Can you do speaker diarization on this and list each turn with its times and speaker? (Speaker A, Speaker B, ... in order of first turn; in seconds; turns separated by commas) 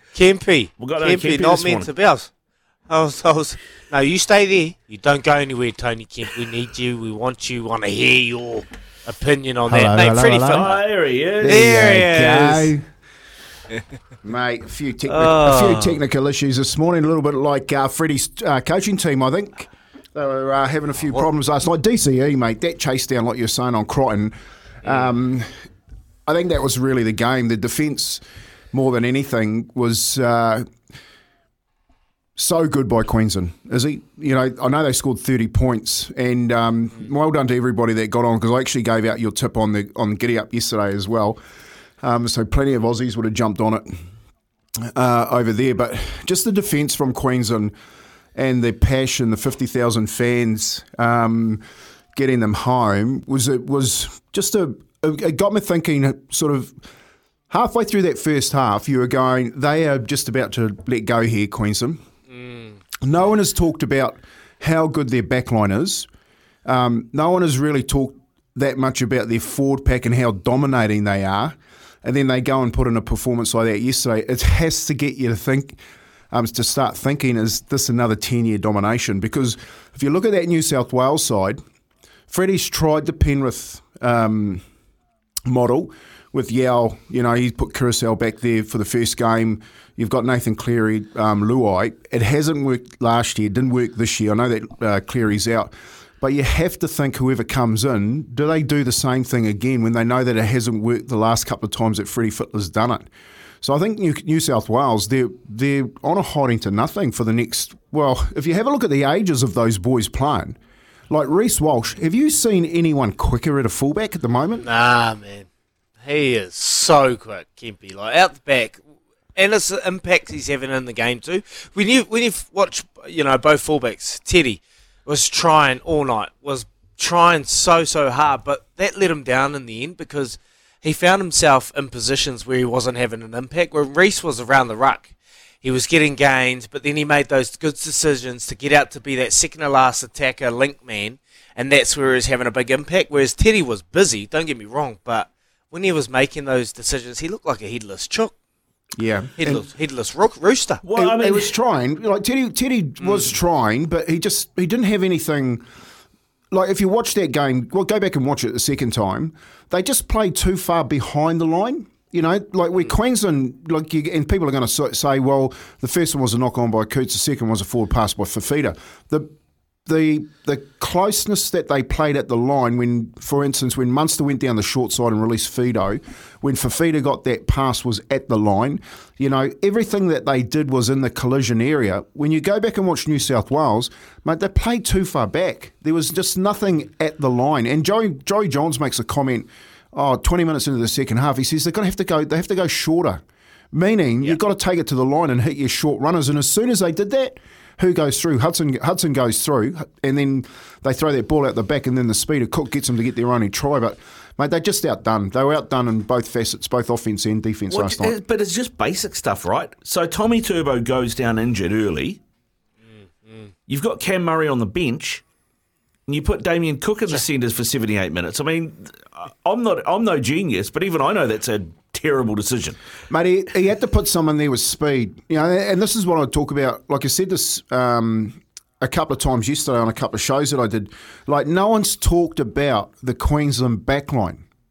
Speaker A: 0.1-2.3, Speaker B: 0.8-1.9, Speaker A: 2.9-10.8, Speaker C: 9.7-10.7, Speaker B: 10.5-11.7, Speaker C: 11.4-12.8, Speaker A: 11.4-12.7, Speaker C: 14.2-25.5, Speaker A: 15.1-16.0, Speaker C: 26.2-30.6, Speaker C: 32.4-41.4, Speaker C: 42.0-43.9, Speaker C: 44.8-47.7, Speaker C: 48.3-51.6, Speaker C: 52.1-56.8, Speaker C: 57.5-62.0, Speaker A: 62.3-62.8, Speaker C: 63.0-66.1, Speaker C: 66.6-81.6, Speaker C: 82.3-84.6, Speaker C: 85.5-103.1, Speaker C: 103.6-110.6, Speaker C: 111.1-114.7, Speaker A: 114.6-115.5, Speaker A: 116.0-118.8, Speaker A: 119.3-148.3, Speaker C: 149.0-149.7, Speaker A: 149.4-150.8, Speaker B: 150.8-151.6, Speaker C: 150.9-155.6, Speaker C: 156.5-169.3, Speaker C: 169.8-208.2, Speaker B: 207.7-212.2, Speaker B: 213.7-215.2, Speaker B: 216.1-222.8, Speaker C: 223.1-234.4